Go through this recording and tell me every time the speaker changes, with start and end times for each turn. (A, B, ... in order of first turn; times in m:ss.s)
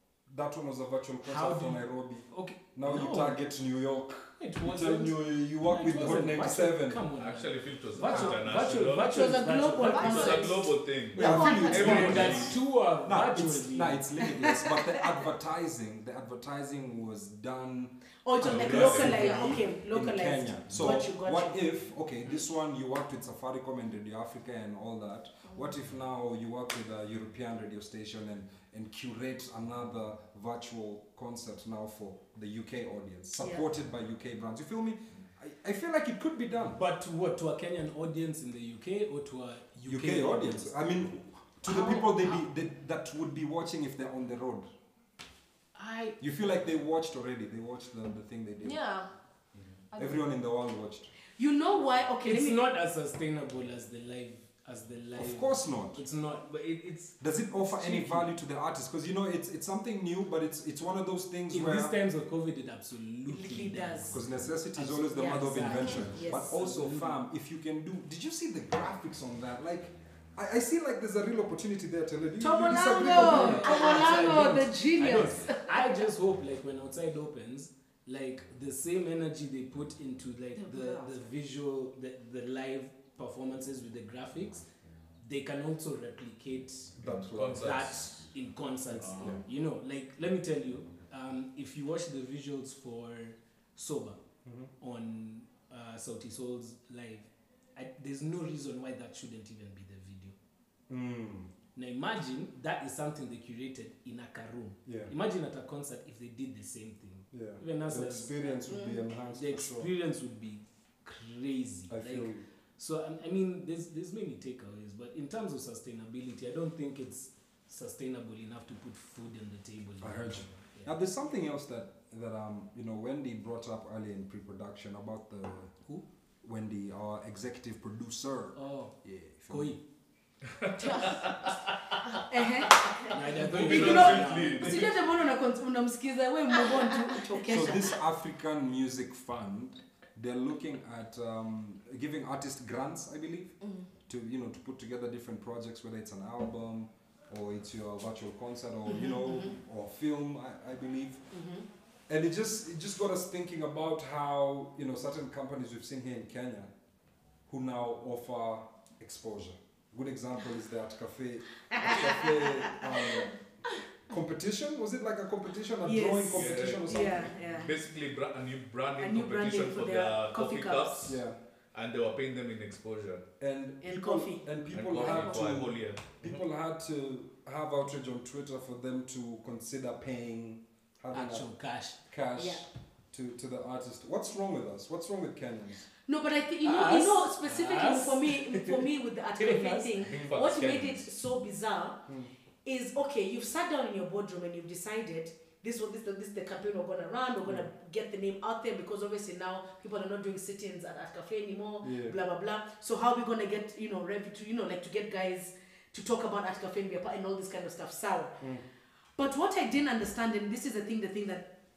0:00.3-0:07.0 A
0:01.2-0:03.4 B
0:04.4-0:10.5 B
0:07.2-0:09.3 C
0:09.0-0:12.3 D
0:09.8-0:10.6 E
0:09.9-0:12.5 C
0:11.1-0:36.8 A
0:11.1-0:14.0 B
0:11.2-0:12.0 E
0:14.2-0:15.0 D
0:18.2-0:21.6 D
0:18.8-0:19.1 C
0:19.0-0:19.6 E
0:33.4-0:33.7 D
0:36.6-0:41.1 B
0:39.8-0:44.7 A
0:41.6-0:42.4 B
0:45.7-0:46.2 B
0:46.2-0:48.8 A
0:48.6-0:49.1 E
0:49.9-0:50.2 E
0:50.0-0:51.1 A
0:51.4-0:52.6 D
0:52.2-0:58.3 B
0:55.2-0:56.0 A
0:57.2-1:01.9 A
1:01.5-1:07.2 B
1:03.3-1:04.2 D
1:04.1-1:14.0 A
1:05.0-1:06.6 D
1:12.4-1:16.0 D
1:13.1-1:24.7 B
1:13.4-1:14.5 E
1:20.6-1:21.2 E
1:25.2-1:27.0 B
1:27.0-1:27.8 A
1:27.0-1:28.1 C
1:27.5-1:34.2 B
1:28.9-1:29.4 A
1:28.9-1:29.4 C
1:34.4-1:34.7 A
1:34.8-1:40.3 B
1:40.9-1:41.5 A
1:41.8-1:48.3 B
1:44.8-1:45.1 A
1:47.3-1:49.9 A
1:48.7-1:49.0 E
1:49.3-2:00.9 B
1:51.9-1:52.4 A
2:00.0-2:05.7 A
2:06.4-2:09.7 A
2:08.6-2:09.0 B
2:09.5-2:09.8 B
2:10.6-2:12.0 C
2:10.8-2:11.5 E
2:12.2-2:17.9 D
2:12.8-2:14.9 C
2:13.1-2:14.7 B
2:13.7-2:14.0 A
2:14.6-2:14.9 A
2:17.5-2:23.5 A
2:24.0-2:31.2 A
2:28.9-2:29.5 D
2:31.3-2:31.6 D
2:32.1-2:36.7 A
2:37.5-2:43.4 A
2:41.7-2:42.6 D
2:44.1-2:47.3 A
2:45.8-2:47.7 D
2:46.3-2:51.2 C
2:49.0-2:51.1 D
2:51.0-2:51.4 A
2:51.7-2:53.2 C
2:53.4-3:01.5 A
2:53.8-2:55.4 D
2:54.7-2:56.4 C
2:55.1-2:55.6 E
3:01.1-3:02.0 B
3:02.0-3:05.9 A
3:02.4-3:02.6 D
3:06.0-3:12.0 D
3:06.6-3:10.0 B
3:10.0-3:11.1 C
3:12.6-3:28.4 D
3:21.8-3:22.2 A
3:29.2-3:31.5 D